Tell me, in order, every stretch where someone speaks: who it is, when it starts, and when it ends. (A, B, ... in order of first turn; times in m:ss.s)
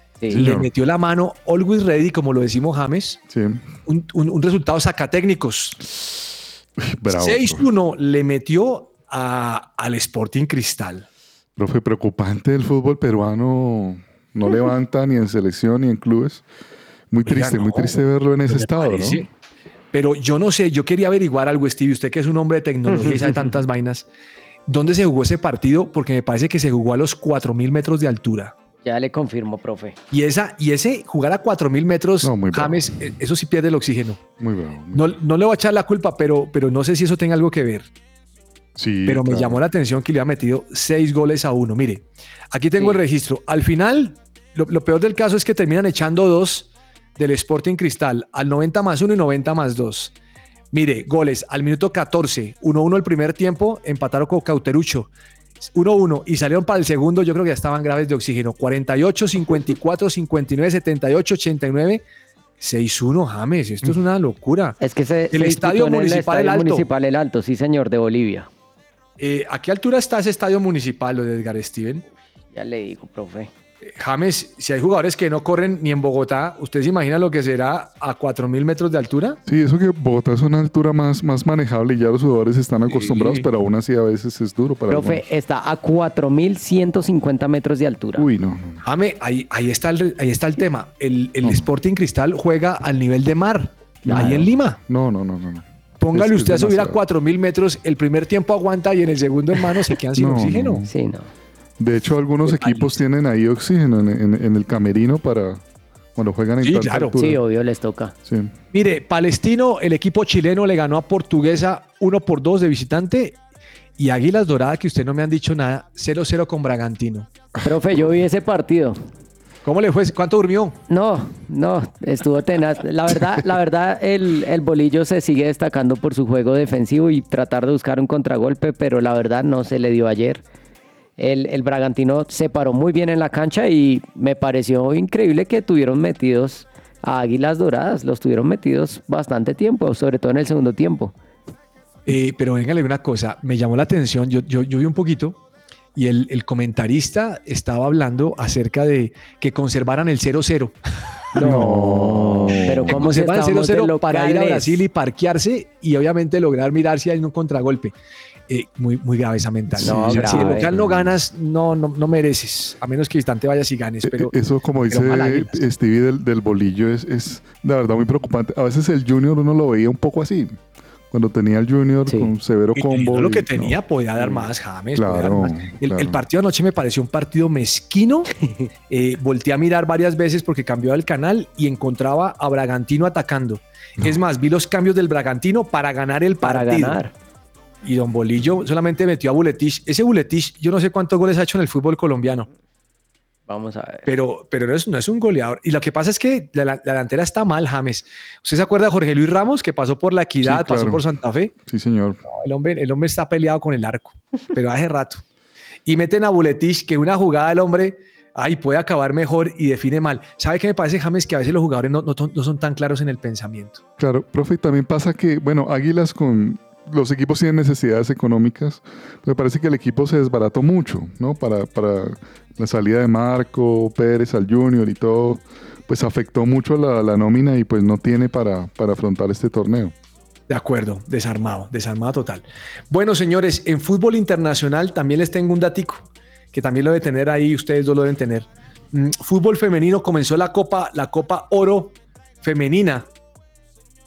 0:00.3-0:00.7 A
0:00.3-0:03.2 B
0:03.3-0:03.6 A
0:03.8-0:06.0 B
0:06.8-0:07.7 A
0:07.1-0:11.0 B
0:11.6-0:16.4 A
0:17.1-0:19.2 A
0:17.2-0:19.3 B
0:19.9-0:24.0 B
0:24.7-0:28.5 B
0:28.8-0:30.0 C
0:30.1-0:34.2 B
0:32.2-0:33.0 A
0:34.4-0:35.2 A
0:34.9-0:37.9 B
0:38.8-0:39.6 A
0:39.0-0:50.1 B
0:50.7-0:55.1 B
0:55.7-1:02.0 B
1:02.6-1:04.8 B
1:04.8-1:08.5 C
1:05.3-1:06.8 B
1:09.2-1:12.0 B
1:12.5-1:13.5 C
1:13.9-1:19.4 B
1:19.5-1:25.2 A
1:22.9-1:23.5 B
1:24.9-1:28.3 C
1:28.2-1:28.8 A
1:28.8-1:34.8 B
1:31.4-1:31.7 A
1:34.0-1:37.0 A
1:34.1-1:34.4 C
1:36.0-1:40.8 B
1:40.2-1:40.9 A
1:40.9-1:41.3 C
1:41.8-1:45.6 A
1:42.4-1:43.0 B
1:46.1-1:47.4 A
1:46.6-1:47.2 B
1:47.2-1:48.1 C
1:48.2-1:48.5 A
1:48.7-1:53.4 B
1:54.0-1:57.3 B
1:57.6-1:59.0 C
1:57.6-1:58.0 A
1:59.6-2:00.8 B
2:00.9-2:10.4 C
2:11.2-2:21.1 C
2:22.0-2:25.4 B
2:25.9-2:30.7 B
2:31.3-2:37.9 B
2:31.4-2:33.0 A
2:31.4-2:34.8 C
2:38.5-2:44.3 B
2:39.8-2:40.7 C
2:39.8-2:41.2 A
2:44.0-2:50.6 A
2:44.9-2:45.6 B
2:51.1-2:56.2 A
2:52.7-2:58.3 B
2:58.9-3:07.0 B
3:06.4-3:07.1 C
3:07.8-3:12.5 B
3:13.5-3:14.1 C
3:14.0-3:21.5 B
3:20.4-3:21.0 A
3:21.6-3:22.2 A
3:22.3-3:25.2 B
3:25.8-3:33.8 B
3:34.0-3:49.9 A
3:50.5-4:03.1 B